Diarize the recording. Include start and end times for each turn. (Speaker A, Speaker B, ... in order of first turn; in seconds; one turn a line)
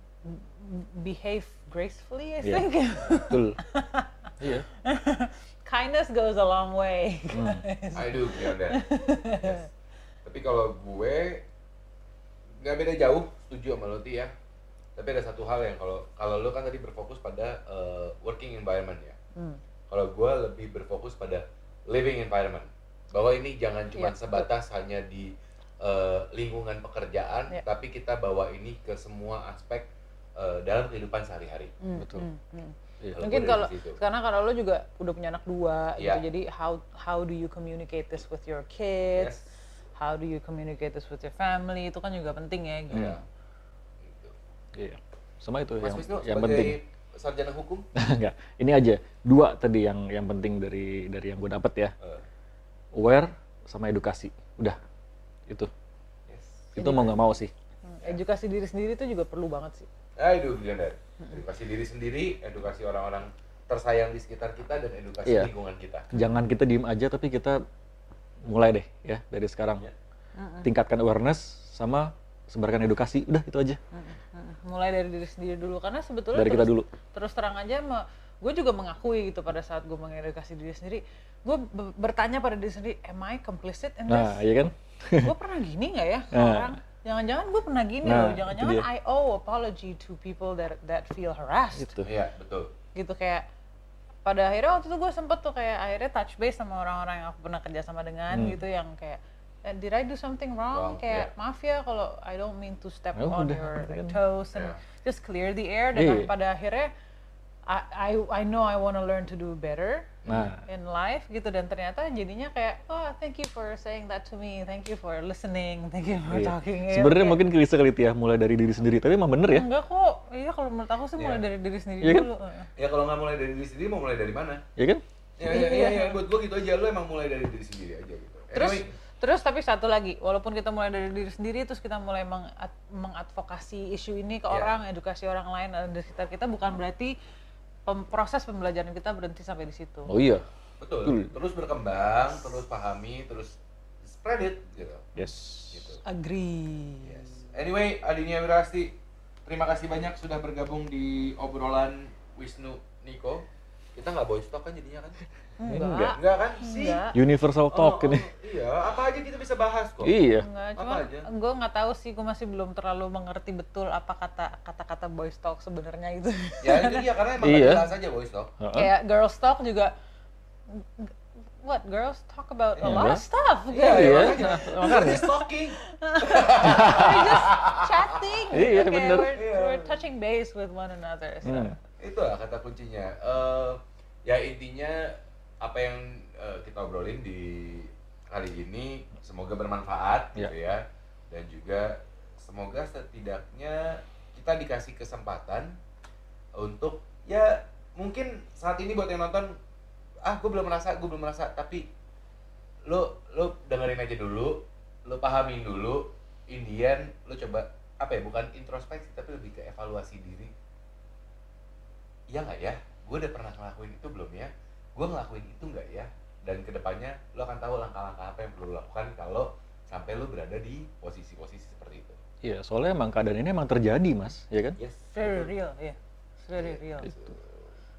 Speaker A: 0.2-4.2
Speaker B: 2.4-3.6
Speaker B: 4.4-4.7
Speaker A: 4.8-9.7
Speaker B: 7.3-7.6
Speaker C: 7.9-8.8
Speaker C: 10.2-11.4
Speaker C: 12.6-14.3
Speaker C: 14.9-19.2
Speaker A: 19.4-19.6
Speaker C: 19.9-31.7
Speaker A: 23.9-24.5
Speaker A: 31.8-39.4
Speaker B: 31.9-32.2
Speaker C: 33.1-34.0
Speaker C: 36.0-36.2
Speaker A: 40.0-43.2
Speaker B: 42.9-43.2
Speaker C: 42.9-43.2
Speaker C: 44.0-44.3
Speaker B: 44.8-46.8
Speaker C: 45.8-47.8
Speaker B: 48.0-51.9
Speaker B: 52.9-54.8
Speaker C: 56.3-57.1
Speaker B: 56.8-57.5
Speaker A: 56.8-57.1
Speaker A: 57.8-59.9
Speaker C: 60.2-66.1
Speaker A: 66.1-66.5
Speaker B: 66.1-67.6
Speaker B: 68.5-69.8
Speaker A: 70.3-70.7
Speaker B: 70.6-73.8
Speaker A: 73.9-84.4
Speaker B: 76.3-76.9
Speaker B: 84.1-85.3
Speaker A: 85.2-92.0
Speaker B: 86.3-86.7
Speaker B: 88.0-88.8
Speaker B: 91.8-92.1
Speaker C: 92.0-92.7
Speaker A: 92.9-93.5
Speaker A: 94.2-106.9
Speaker B: 98.3-98.6
Speaker C: 100.7-101.3
Speaker B: 103.2-104.2
Speaker B: 105.9-106.3
Speaker A: 107.7-110.1
Speaker C: 110.2-110.5
Speaker B: 110.3-110.6
Speaker A: 110.7-117.4
Speaker B: 116.3-119.7
Speaker A: 119.5-122.7
Speaker C: 121.2-121.4
Speaker B: 122.0-122.3
Speaker C: 122.8-124.6
Speaker B: 124.8-125.0
Speaker C: 125.4-128.9
Speaker A: 125.4-126.2
Speaker A: 128.5-137.1
Speaker A: 137.8-140.1
Speaker B: 140.1-140.4
Speaker C: 140.8-145.1
Speaker B: 141.0-141.3
Speaker B: 145.2-145.9
Speaker C: 145.7-146.0
Speaker A: 146.1-147.4
Speaker C: 147.0-155.2
Speaker A: 155.6-157.1
Speaker B: 155.7-156.2
Speaker C: 156.1-157.0
Speaker B: 157.1-158.3
Speaker C: 157.7-160.1
Speaker B: 160.0-160.4
Speaker A: 160.4-167.1
Speaker C: 160.8-161.2
Speaker C: 166.6-168.5
Speaker B: 167.4-167.8
Speaker B: 168.6-168.9
Speaker A: 168.7-169.9
Speaker A: 170.7-181.8
Speaker C: 172.8-173.1
Speaker B: 172.8-173.2
Speaker C: 173.7-178.2
Speaker B: 173.8-175.2
Speaker B: 176.6-177.5
Speaker B: 178.5-179.3
Speaker C: 179.3-180.0
Speaker B: 181.4-181.7
Speaker C: 182.0-195.8
Speaker C: 196.6-199.5
Speaker C: 200.2-201.8
Speaker C: 202.9-210.5
Speaker C: 212.3-222.2
Speaker B: 222.4-224.8
Speaker C: 224.8-225.5
Speaker A: 225.1-227.1
Speaker C: 226.6-227.6